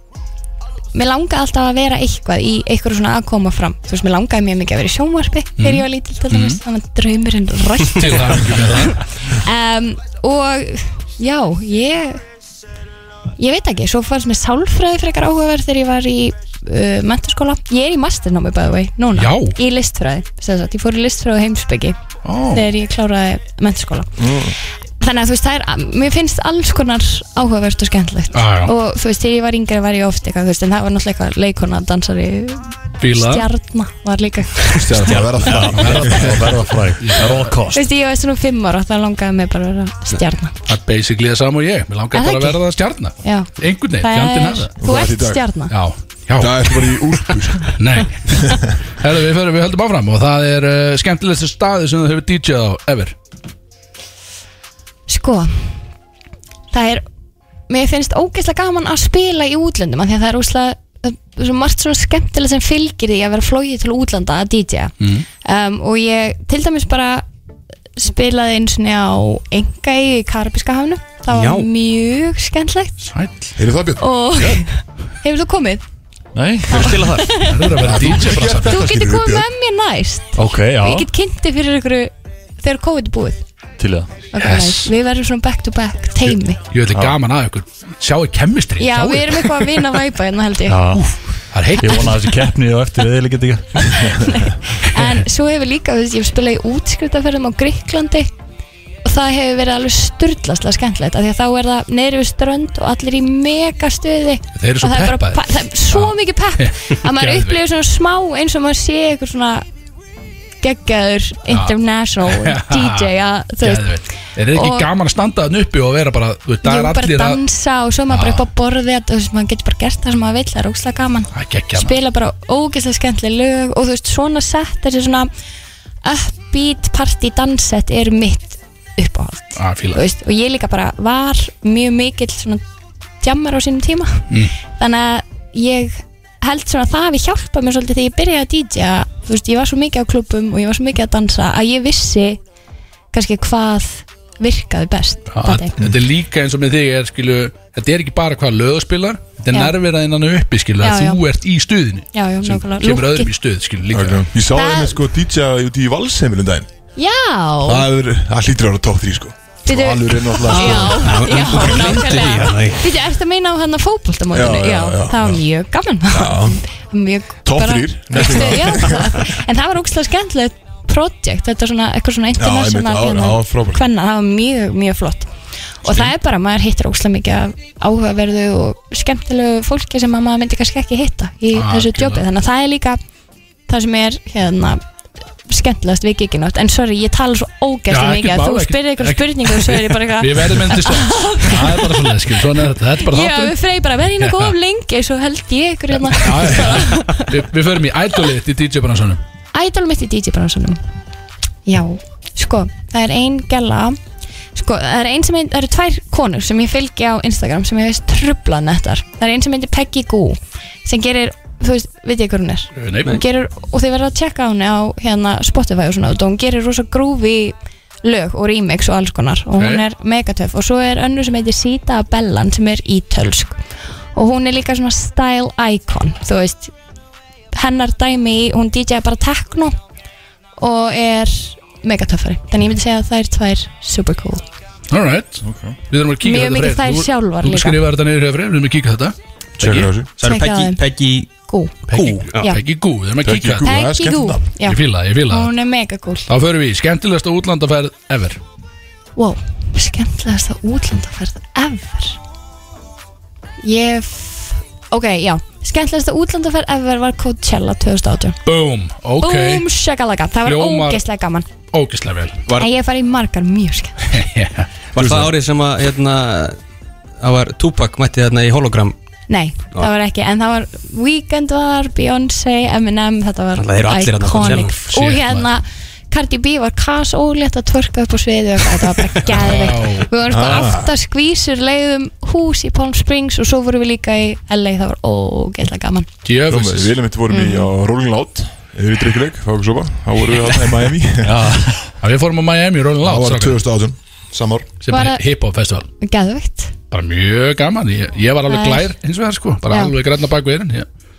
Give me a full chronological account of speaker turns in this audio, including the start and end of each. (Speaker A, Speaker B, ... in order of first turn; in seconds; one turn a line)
Speaker A: 0.9-12.2
Speaker B: 5.6-6.6
Speaker B: 7.9-9.0
Speaker A: 13.4-22.0
Speaker B: 19.1-19.6
Speaker B: 22.2-22.7
Speaker A: 22.5-24.2
Speaker C: 24.2-24.6
Speaker A: 25.0-35.3
Speaker B: 28.3-28.7
Speaker B: 33.0-33.5
Speaker C: 34.7-36.4
Speaker B: 35.1-37.6
Speaker D: 35.4-35.8
Speaker E: 35.8-37.9
Speaker A: 37.7-40.6
Speaker B: 40.7-44.7
Speaker A: 42.1-42.6
Speaker A: 43.2-45.7
Speaker C: 44.8-45.5
Speaker B: 45.7-46.9
Speaker C: 46.4-48.6
Speaker B: 47.8-53.1
Speaker A: 55.1-55.8
Speaker A: 56.7-57.0
Speaker A: 57.7-67.2
Speaker B: 65.0-65.3
Speaker A: 68.0-73.0
Speaker D: 71.3-71.7
Speaker B: 73.1-73.5
Speaker C: 73.6-74.1
Speaker A: 74.0-75.8
Speaker E: 76.3-78.1
Speaker A: 76.6-77.8
Speaker B: 77.4-78.8
Speaker C: 77.8-79.5
Speaker A: 78.7-83.5
Speaker E: 80.3-81.1
Speaker E: 83.8-84.5
Speaker A: 84.3-86.6
Speaker B: 84.4-84.9
Speaker B: 86.2-89.7
Speaker E: 86.9-87.2
Speaker A: 88.8-90.9
Speaker E: 90.7-91.2
Speaker B: 90.9-92.3
Speaker E: 91.8-94.5
Speaker A: 91.8-92.1
Speaker A: 93.8-98.3
Speaker A: 99.0-109.6
Speaker B: 104.5-107.6
Speaker A: 110.6-114.0
Speaker B: 111.5-117.4
Speaker A: 114.5-114.9
Speaker A: 116.6-125.3
Speaker B: 118.1-118.5
Speaker B: 121.3-122.0
Speaker A: 126.0-132.6
Speaker B: 129.6-130.0
Speaker A: 133.2-142.4
Speaker A: 143.1-145.8
Speaker B: 145.3-154.3
Speaker A: 150.8-151.2
Speaker A: 152.1-153.3
Speaker C: 153.9-156.7
Speaker A: 154.5-155.0
Speaker A: 156.9-157.9
Speaker C: 157.6-161.7
Speaker A: 159.7-183.0
Speaker D: 160.4-162.9
Speaker C: 164.3-165.4
Speaker C: 166.1-166.6
Speaker C: 167.4-169.2
Speaker C: 172.4-173.8
Speaker B: 181.5-182.3
Speaker A: 183.7-184.8
Speaker A: 185.4-192.4
Speaker B: 187.9-193.6
Speaker A: 192.9-197.4
Speaker B: 194.2-194.5
Speaker B: 196.1-199.2
Speaker A: 199.5-200.8
Speaker A: 201.7-204.0
Speaker A: 204.5-223.6
Speaker B: 212.8-213.2
Speaker B: 219.6-219.9
Speaker A: 224.1-226.7
Speaker A: 227.5-229.8
Speaker A: 230.6-234.4
Speaker B: 234.9-239.9
Speaker E: 235.4-235.8
Speaker A: 236.2-237.8
Speaker C: 239.6-240.1
Speaker D: 240.2-241.3
Speaker A: 240.2-240.8
Speaker A: 241.3-241.8
Speaker B: 241.9-243.7
Speaker D: 241.9-242.5
Speaker C: 243.2-244.5
Speaker A: 243.6-246.3
Speaker B: 244.6-245.5
Speaker B: 246.3-248.4
Speaker A: 249.2-252.2
Speaker A: 253.6-258.4
Speaker B: 258.4-259.7
Speaker A: 259.2-261.5
Speaker B: 260.4-261.0
Speaker B: 261.7-262.4
Speaker A: 262.6-264.2
Speaker B: 264.1-264.7
Speaker D: 264.9-266.6
Speaker C: 264.9-265.3
Speaker D: 267.2-268.9
Speaker A: 269.3-286.1
Speaker D: 273.6-274.7
Speaker B: 274.4-275.5
Speaker B: 279.3-280.1
Speaker C: 280.3-280.9
Speaker B: 286.2-287.0
Speaker C: 286.4-291.4
Speaker A: 287.3-287.7
Speaker B: 291.2-293.6
Speaker C: 293.0-294.7
Speaker B: 294.8-295.9
Speaker A: 294.9-295.2
Speaker A: 296.0-296.7
Speaker B: 296.9-300.9
Speaker A: 298.5-298.9
Speaker A: 299.7-299.9